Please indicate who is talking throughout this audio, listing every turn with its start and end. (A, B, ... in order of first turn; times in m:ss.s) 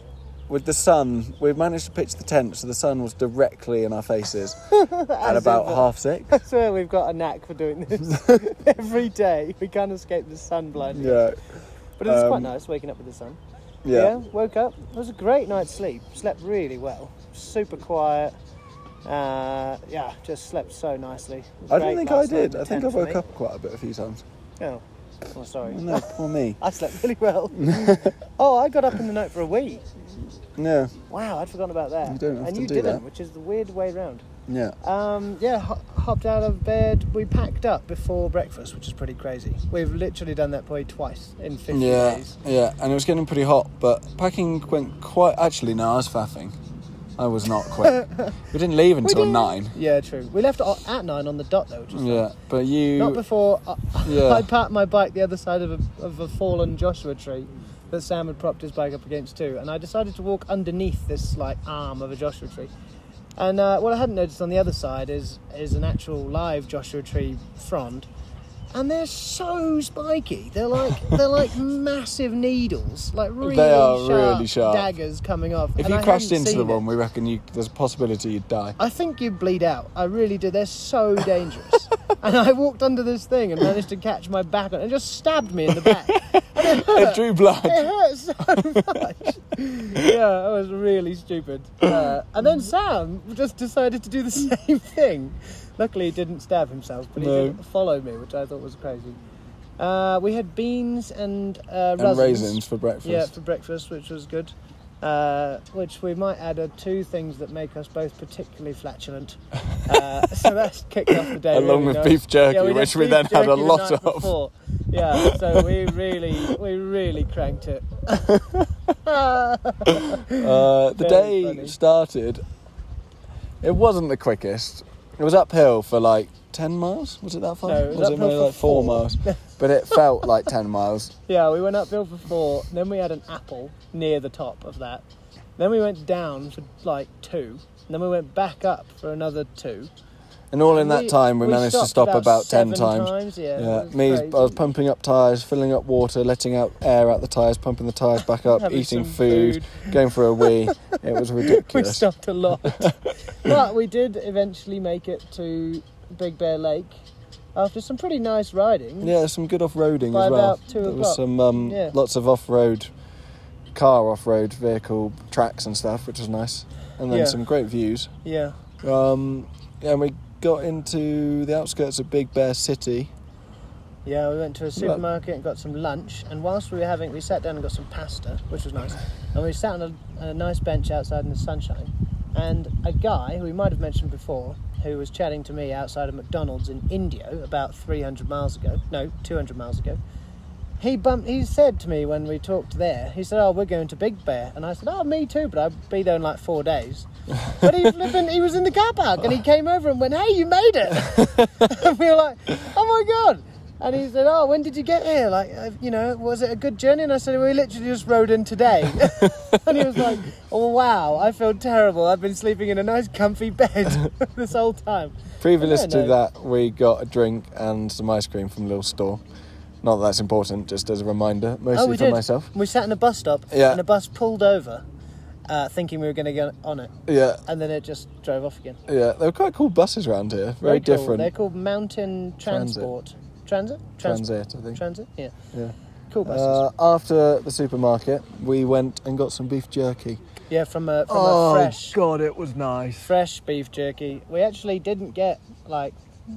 0:00.5-0:04.6 A
0:04.6-0:11.3 B
0:05.2-0:06.4 A
0:08.1-0:08.4 A
0:10.9-0:11.4 A
0:12.0-0:18.3 B
0:12.0-0:12.5 A
0:13.8-0:14.1 A
0:19.0-0:23.2 B
0:21.7-0:24.2 A
0:24.6-0:29.8 B
0:25.6-0:26.6 A
0:27.5-0:28.1 A
0:30.6-0:30.9 A
0:31.1-0:34.2 B
0:32.0-0:33.0 A
0:34.5-0:34.8 A
0:34.8-0:42.3 B
0:41.7-0:46.6 A
0:47.2-0:49.7 A
0:49.0-0:52.2 B
0:51.9-0:53.2 A
0:53.0-1:02.7 B
0:54.0-0:54.5 A
1:03.4-1:08.1 B
1:08.7-1:16.8 B
1:13.4-1:14.9 A
1:15.8-1:18.8 A
1:18.8-1:39.2 B
1:25.8-1:27.9 A
1:28.5-1:29.3 A
1:37.2-1:37.6 A
1:39.8-1:58.4 B
1:42.0-1:43.3 A
1:51.1-1:54.3 A
1:55.1-1:55.8 A
1:59.0-2:00.4 B
1:59.9-2:02.4 A
2:01.0-2:01.8 B
2:03.6-2:11.1 A
2:07.6-2:09.4 B
2:11.3-2:15.0 B
2:15.6-2:19.9 B
2:20.5-2:32.0 A
2:20.7-2:24.6 B
2:28.4-2:36.9 B
2:32.6-2:32.9 A
2:37.5-2:39.1 B
2:39.0-2:42.9 A
2:40.1-2:42.0 B
2:43.7-2:48.1 A
2:47.1-2:47.4 B
2:48.2-2:48.6 B
2:48.8-2:53.1 A
2:54.0-3:10.0 B
3:10.8-3:36.2 B
3:29.2-3:30.1 A
3:35.4-3:39.2 A
3:39.8-3:42.5 A
3:41.7-3:44.8 B
3:43.5-3:43.8 A
3:45.5-3:46.9 B
3:47.1-3:47.4 A
3:47.4-3:48.8 B
3:48.9-3:51.3 A
3:50.6-3:55.3 B
3:52.4-3:52.9 A
3:54.0-3:54.8 A
3:55.5-4:00.2 A
3:56.1-3:56.6 B
4:00.5-4:02.0 B
4:01.1-4:03.1 A
4:03.0-4:06.0 B